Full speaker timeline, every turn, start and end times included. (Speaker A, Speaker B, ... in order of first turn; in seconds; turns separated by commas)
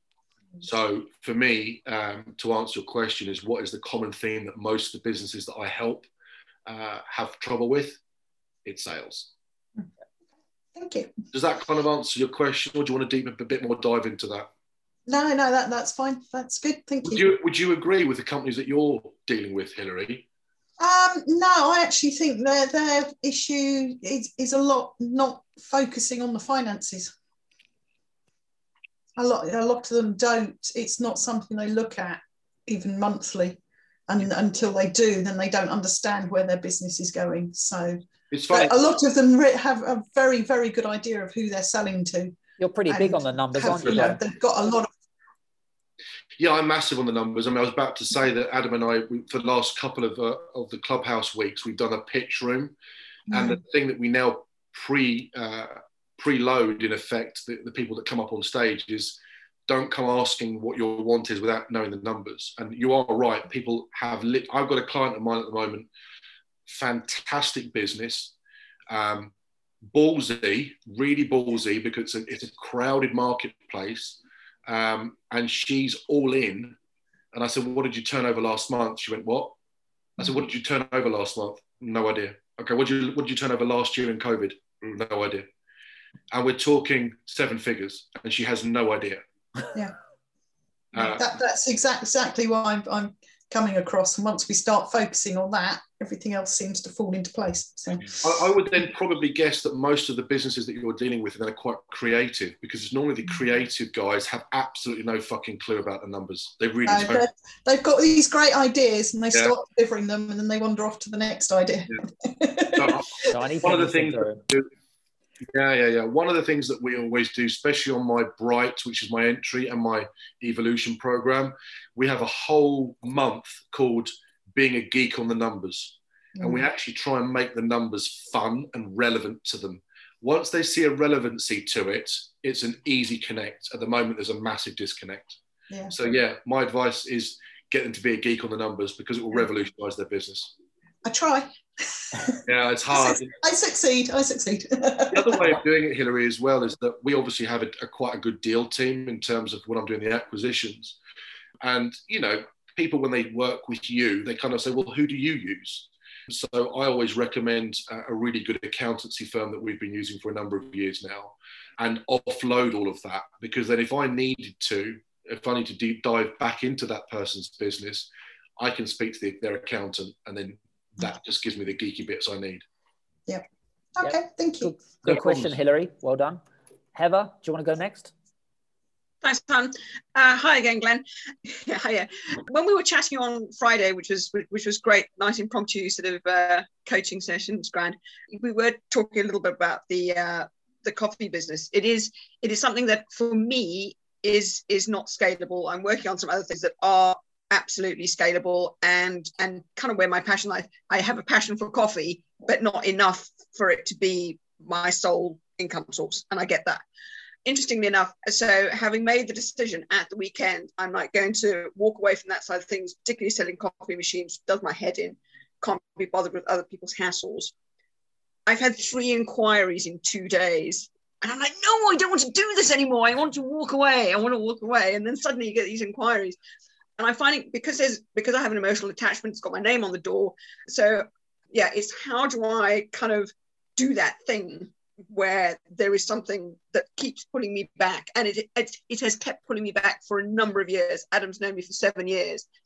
Speaker A: 0.6-6.1, Speaker A: 6.7-8.0, Speaker A: 8.7-9.3, Speaker B: 10.8-11.1, Speaker A: 11.3-14.5, Speaker B: 15.1-17.3, Speaker A: 17.1-20.3, Speaker B: 20.8-27.1, Speaker B: 29.2-42.4, Speaker A: 38.3-39.0, Speaker C: 42.6-44.2, Speaker B: 42.9-44.9, Speaker A: 46.4-52.8, Speaker B: 53.3-53.6, Speaker A: 53.3-65.9, Speaker A: 66.7-68.3, Speaker A: 68.9-69.3, Speaker A: 69.9-76.8, Speaker A: 77.3-79.5, Speaker A: 80.2-85.5, Speaker A: 86.3-89.2, Speaker B: 90.9-98.5, Speaker A: 91.0-91.2, Speaker A: 98.2-107.2, Speaker B: 106.8-113.2, Speaker A: 112.8-113.1, Speaker C: 113.3-114.4, Speaker A: 113.6-114.7, Speaker A: 115.5-135.4, Speaker B: 126.4-126.7, Speaker B: 135.7-136.0, Speaker A: 135.9-140.5, Speaker B: 141.1-145.6, Speaker A: 142.5-143.4, Speaker A: 145.1-151.0, Speaker A: 151.6-172.6, Speaker B: 174.0-174.8, Speaker C: 174.0-176.4, Speaker A: 175.0-175.6, Speaker C: 176.9-178.1, Speaker D: 179.2-206.8, Speaker D: 207.4-217.5, Speaker D: 218.5-226.4, Speaker D: 227.0-242.5